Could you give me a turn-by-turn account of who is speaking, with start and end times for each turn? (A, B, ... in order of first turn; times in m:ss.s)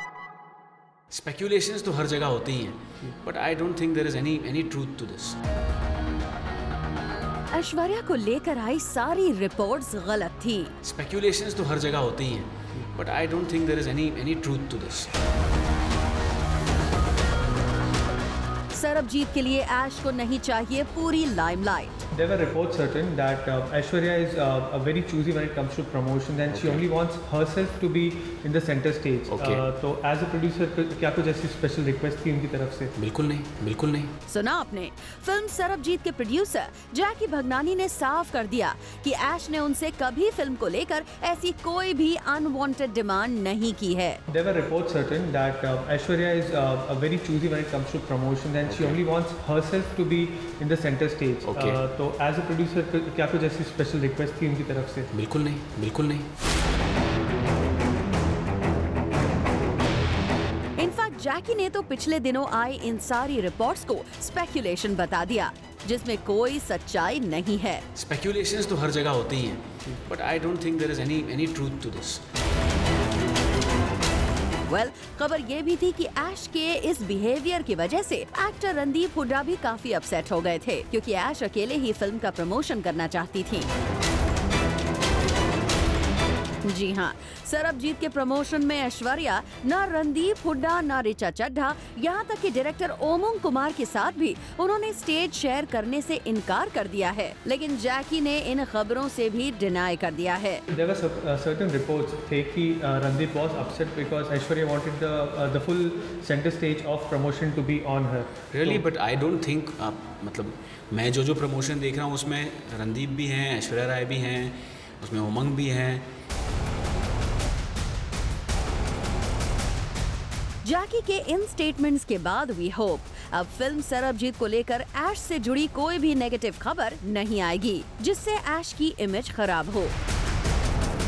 0:01.1-0:05.4 A
0:07.5-0:10.7 B
0:10.8-0:15.1 A
0:18.7-0:22.0 B
0:22.1-0:32.9 C
0:26.5-0:26.8 A
0:29.3-0:29.6 A
0:33.0-0:34.1 A
0:34.3-0:44.2 B
0:44.3-0:55.1 C
0:48.6-0:49.0 A
0:51.4-0:51.8 A
0:55.1-0:56.3 A
1:00.8-1:07.8 B
1:07.9-1:12.2 A
1:14.7-1:23.7 B
1:26.6-1:40.6 B
1:40.7-1:48.8 C
1:48.5-1:56.1 A
2:00.6-2:09.9 B